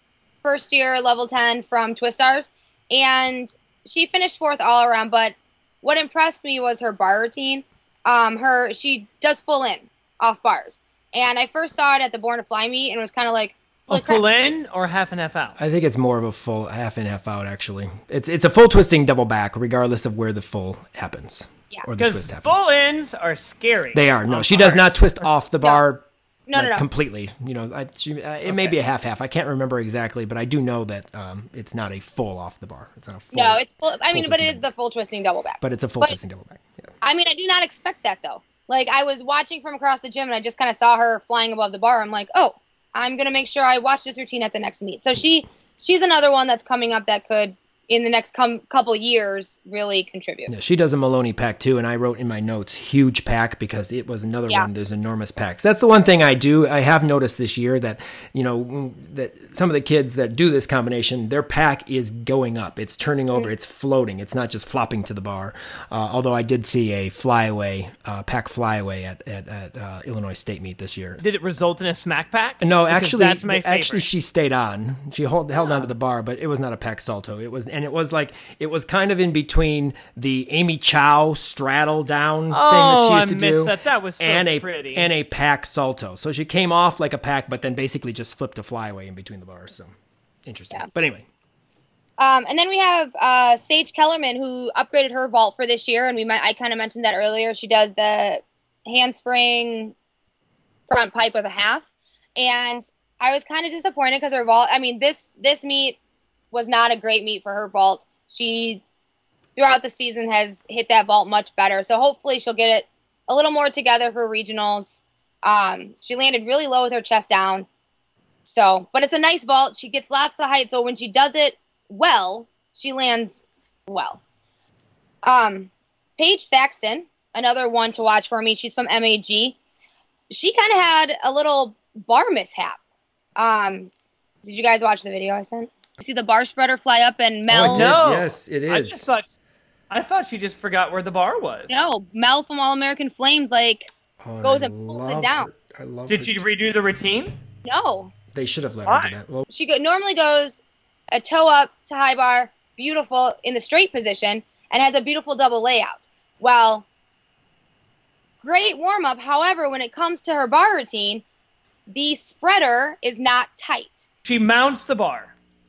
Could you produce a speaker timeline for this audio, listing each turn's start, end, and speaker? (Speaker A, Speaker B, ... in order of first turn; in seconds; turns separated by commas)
Speaker A: 0.4-14.2, Speaker B: 13.9-15.6, Speaker C: 15.6-22.7, Speaker B: 22.0-25.3, Speaker C: 23.9-34.6, Speaker A: 26.5-26.9, Speaker B: 28.5-28.7, Speaker A: 33.3-36.1, Speaker C: 35.6-36.9, Speaker A: 37.0-50.5, Speaker C: 50.5-71.2, Speaker B: 71.2-74.0, Speaker C: 72.6-91.2, Speaker B: 82.5-85.1, Speaker A: 92.2-99.9, Speaker A: 100.9-101.8, Speaker A: 102.3-106.0, Speaker A: 106.5-108.8, Speaker A: 109.5-117.7, Speaker A: 118.4-124.2, Speaker A: 125.2-129.6, Speaker A: 130.3-132.8, Speaker A: 133.4-133.9, Speaker A: 134.4-137.9, Speaker C: 137.5-139.1, Speaker B: 137.6-139.4, Speaker B: 139.9-141.8, Speaker A: 141.7-143.9, Speaker C: 144.2-146.4, Speaker A: 144.4-145.5, Speaker B: 146.1-147.3, Speaker A: 147.6-148.1, Speaker C: 148.3-149.5, Speaker B: 148.9-149.1, Speaker A: 149.5-150.6, Speaker A: 151.1-156.8, Speaker A: 158.4-161.2, Speaker A: 161.9-164.1, Speaker B: 164.2-165.3